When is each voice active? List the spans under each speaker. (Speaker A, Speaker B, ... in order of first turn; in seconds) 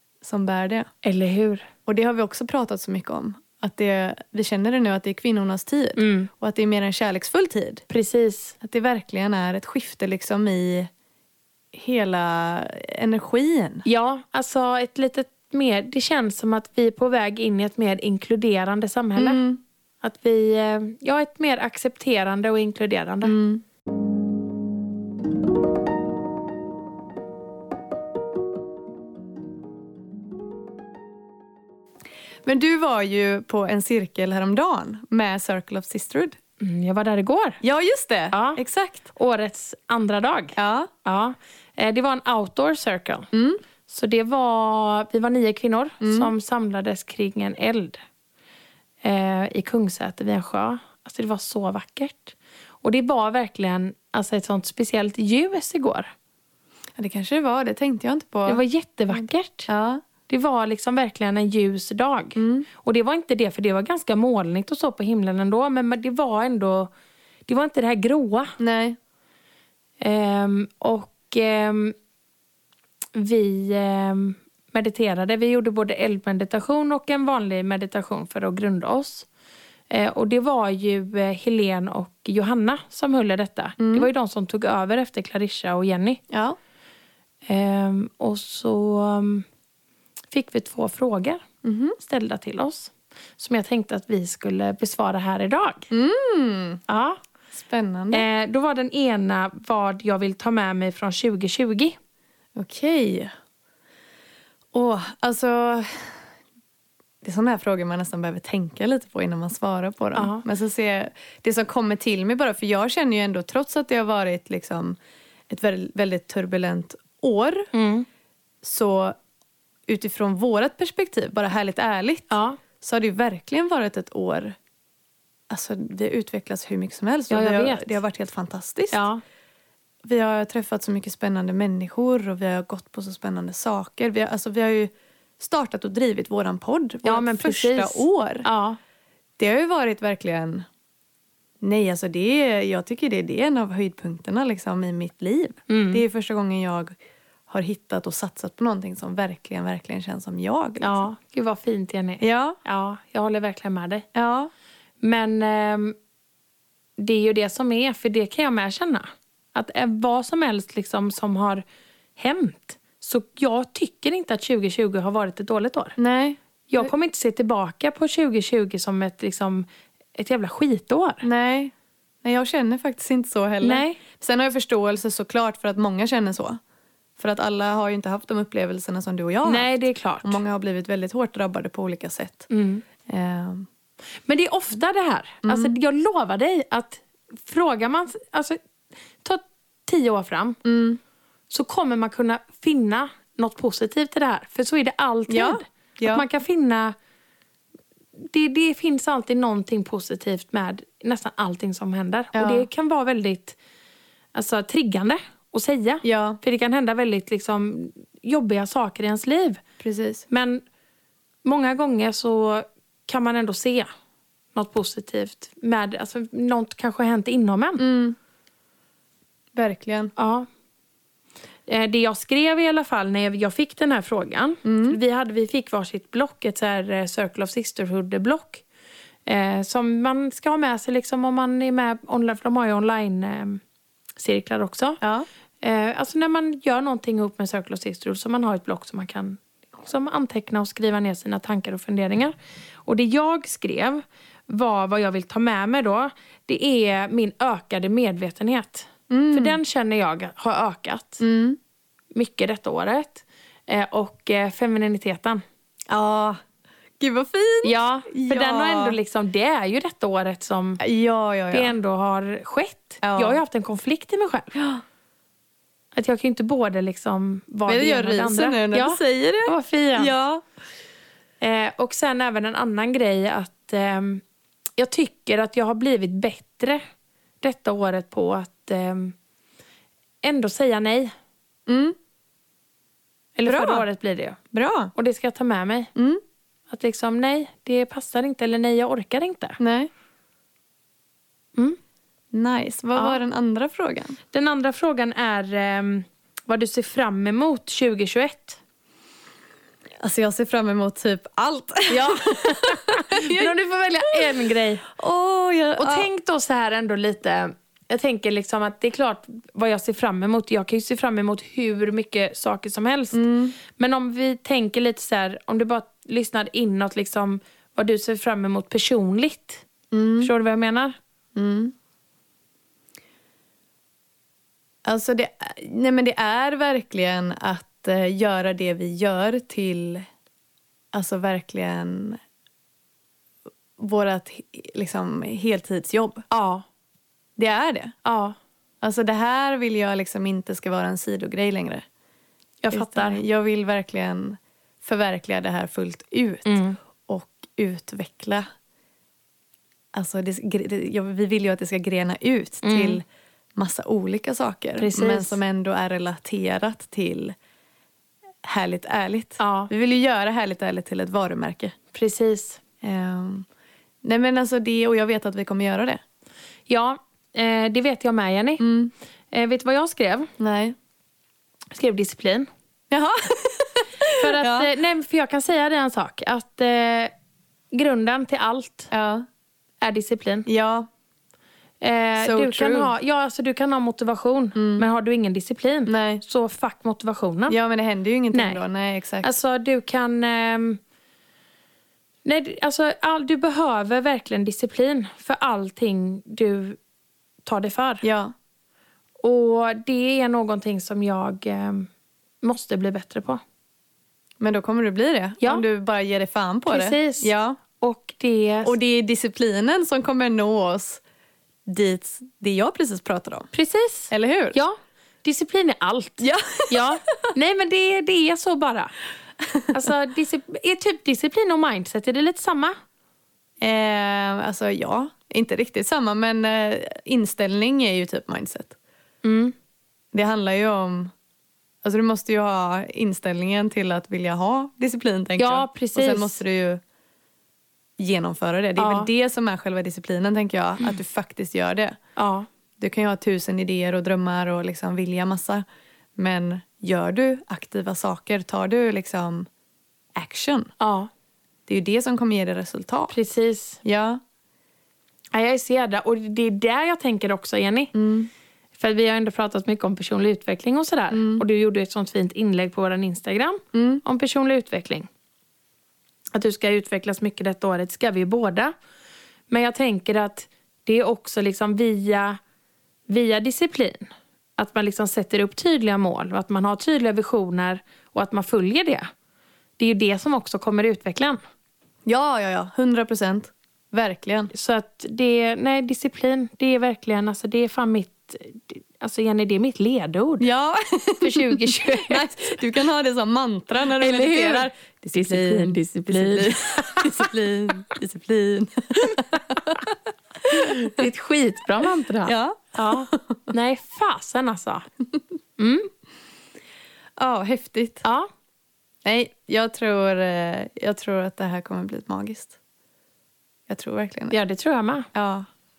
Speaker A: 0.2-0.9, 1.9-7.8, 8.6-10.9, 11.7-13.8, 19.2-19.6, 23.2-23.6, 32.4-36.4, 37.6-39.1, 40.6-40.9, 43.3-43.6, 46.0-46.3, 57.0-60.0, 62.4-62.7, 68.6-69.0, 83.8-84.1, 86.3-86.6, 91.6-92.0, 95.9-96.8, 97.5-98.2, 102.6-103.3, 104.7-106.2, 107.2-115.0, 115.5-117.7, 118.6-119.1, 119.9-124.6, 125.5-129.0, 130.1-138.4, 139.4-140.7, 141.6-146.9, 147.5-151.1, 152.2-152.6, 154.1-154.5, 166.0-166.9, 171.2-171.7, 172.2-176.6, 177.2-179.7, 180.2-182.5, 183.1-183.7, 185.4-185.8, 190.6-191.0, 195.3-196.2, 202.3-202.7, 206.0-206.4, 209.8-210.2, 217.8-218.2, 219.5-220.1, 224.6-225.0, 235.0-235.3, 249.1-249.6, 251.2-251.6, 255.9-256.4, 257.0-259.0, 260.8-261.7, 263.0-263.4, 264.5-264.8, 267.7-270.4, 281.7-281.9, 283.4-283.9, 284.5-284.9, 285.9-286.2, 289.6-289.9, 292.3-294.2, 300.0-303.6, 304.1-306.1, 313.1-313.6, 319.9-320.3, 321.4-321.7, 324.9-330.1, 330.9-332.2, 333.8-336.2, 337.4-337.9, 338.8-341.9, 342.7-348.4, 349.9-353.0, 353.6-357.3, 358.4-361.7, 362.8-363.4, 364.0-366.0, 368.6-368.9, 370.4-370.8, 372.9-374.7, 378.9-379.2, 380.5-380.9, 382.2-382.9, 384.6-384.9, 385.9-386.2, 387.5-389.3, 398.0-398.3, 404.4-407.6, 408.6-411.0, 411.6-413.5, 414.1-414.6, 416.2-417.1, 423.6-428.8, 430.1-431.1, 431.8-436.8, 438.0-441.9, 442.8-445.6, 446.2-449.5, 450.1-450.7, 451.7-453.1, 453.8-454.2, 457.9-458.3, 461.1-461.4, 463.7-464.0, 482.1-484.5, 490.4-499.9, 500.4-501.0, 502.2-503.5, 507.2-508.1, 509.1-512.5, 513.7-514.4, 515.1-515.5
Speaker B: 1.0-1.7, 6.0-6.3, 7.9-8.6, 13.9-19.4, 20.0-23.4, 36.6-37.6, 38.3-38.6, 39.1-43.3, 43.9-48.0, 49.0-56.1, 58.5-59.7, 60.3-66.9, 67.5-68.6, 70.0-71.9, 73.1-79.3, 79.9-86.2, 87.5-89.5, 90.3-91.4, 92.0-95.9, 96.9-97.2, 98.1-102.0, 110.2-110.4, 117.7-118.1, 122.3-122.6, 127.3-128.0, 128.9-129.2, 137.1-138.8, 145.7-146.0, 150.8-154.1, 155.0-155.9, 157.0-161.6, 162.2-165.9, 166.7-171.2, 173.6-174.0, 179.4-180.4, 182.5-182.8, 184.2-188.6, 189.2-190.6, 191.5-196.9, 198.3-203.6, 204.3-209.6, 210.3-210.6, 211.4-213.9, 214.6-217.8, 220.2-220.5, 221.7-228.6, 229.2-233.6, 234.2-235.0, 235.6-242.3, 242.8-251.2, 252.1-255.4, 257.6-260.8, 261.5-264.5, 265.9-270.1, 271.4-274.2, 274.8-276.8, 277.4-279.1, 280.2-281.1, 283.4-284.4, 284.9-285.9, 286.7-289.6, 294.3-298.6, 301.9-304.9, 305.8-319.6, 320.2-320.9, 336.3-336.6, 338.1-338.4, 342.6-343.2, 346.4-346.8, 352.6-353.0, 354.8-355.4, 359.4-359.7, 361.9-362.6, 366.7-368.6, 369.3-370.3, 371.7-372.5, 374.2-377.1, 377.7-378.9, 379.8-380.5, 381.8-387.6, 388.3-388.6, 389.2-390.8, 392.2-396.8, 397.4-398.1, 399.2-401.9, 402.4-403.4, 406.7-408.7, 413.5-418.9, 419.7-422.7, 429.2-429.6, 435.4-436.4, 438.8-439.1, 442.1-442.5, 450.8-451.1, 453.1-453.8, 455.3-457.9, 458.8-465.1, 466.3-468.7, 469.5-472.4, 473.1-479.1, 479.8-481.4, 484.5-490.5, 491.2-492.6, 493.9-497.3, 499.1-499.9, 500.5-504.9, 505.6-505.9, 514.3-515.1